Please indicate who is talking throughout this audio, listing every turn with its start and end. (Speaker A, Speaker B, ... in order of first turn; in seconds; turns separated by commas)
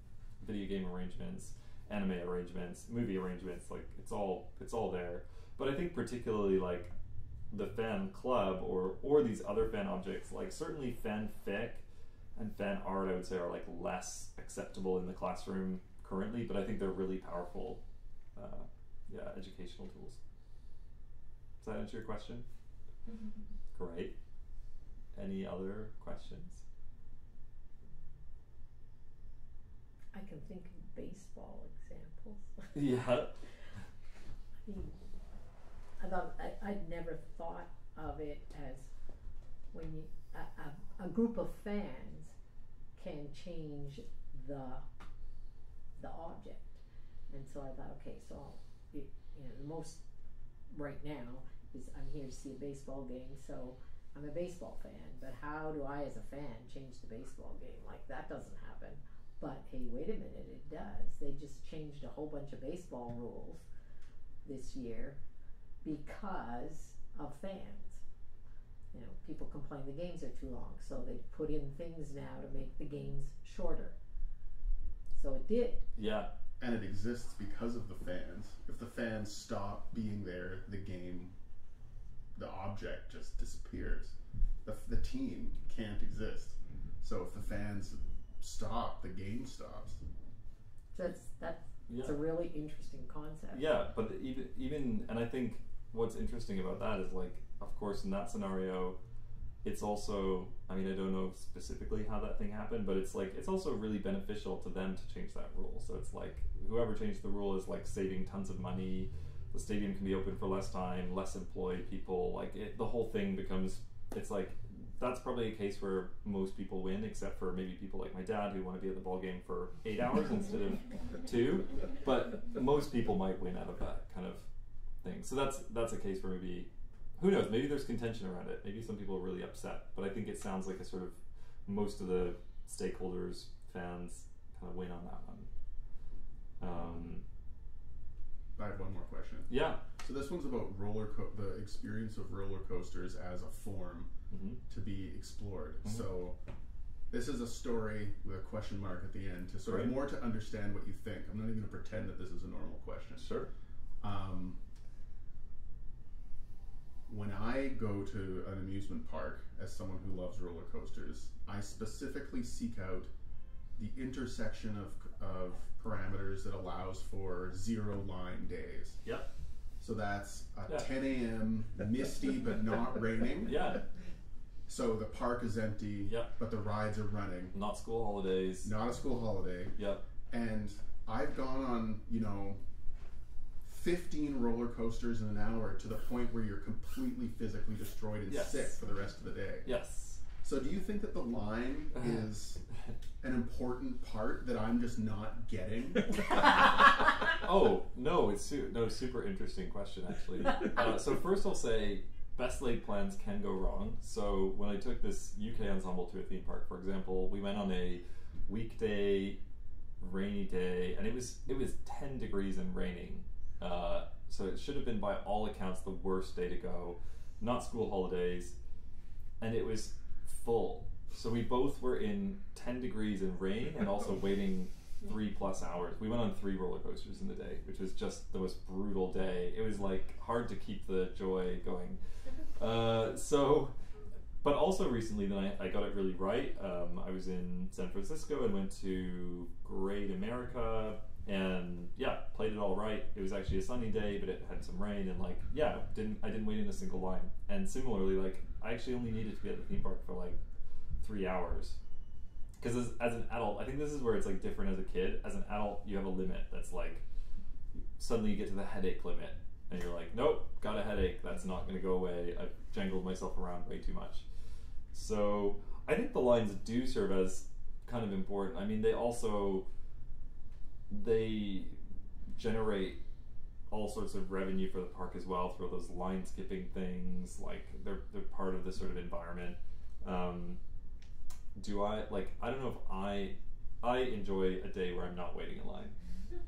Speaker A: 0.4-6.9, Speaker A: 7.5-11.8, Speaker A: 12.3-17.8, Speaker A: 18.3-20.2, Speaker A: 21.6-22.4, Speaker A: 23.7-24.1, Speaker A: 25.1-26.6, Speaker B: 30.1-32.7, Speaker A: 32.7-33.4, Speaker B: 34.6-34.9, Speaker B: 36.0-38.9, Speaker B: 39.7-42.3, Speaker B: 43.0-44.8, Speaker B: 46.0-50.0, Speaker B: 50.7-63.6, Speaker B: 64.4-65.2, Speaker B: 65.8-68.0, Speaker B: 68.9-73.9, Speaker B: 75.1-75.8, Speaker A: 76.0-76.3, Speaker C: 76.6-81.3, Speaker C: 82.3-90.0, Speaker B: 90.9-93.7, Speaker A: 91.9-92.2, Speaker A: 93.5-99.0, Speaker A: 99.6-124.5, Speaker A: 125.0-135.5, Speaker A: 136.6-137.2, Speaker C: 138.6-144.1, Speaker A: 139.5-139.8, Speaker A: 144.3-144.6, Speaker C: 144.7-146.4, Speaker C: 147.1-153.3, Speaker A: 149.7-149.9, Speaker A: 153.2-153.5, Speaker C: 154.0-154.6, Speaker C: 157.1-163.1, Speaker C: 163.8-169.0, Speaker C: 169.8-173.7, Speaker A: 173.4-173.8, Speaker C: 174.7-177.5, Speaker A: 176.0-176.3, Speaker A: 177.5-178.7, Speaker C: 178.6-179.7, Speaker A: 179.8-180.0, Speaker C: 180.3-182.6, Speaker C: 183.6-189.7, Speaker A: 188.3-188.8, Speaker A: 189.6-190.2, Speaker C: 190.4-192.6, Speaker A: 191.9-192.3, Speaker C: 193.2-196.4, Speaker A: 197.4-209.4, Speaker A: 210.0-218.5, Speaker A: 219.4-232.0, Speaker A: 232.6-233.7, Speaker A: 234.4-250.4, Speaker A: 251.0-251.8, Speaker A: 252.6-257.0, Speaker A: 258.0-264.2, Speaker A: 264.9-269.6, Speaker A: 270.9-271.8, Speaker A: 272.4-273.0, Speaker A: 273.7-280.6, Speaker A: 281.5-285.9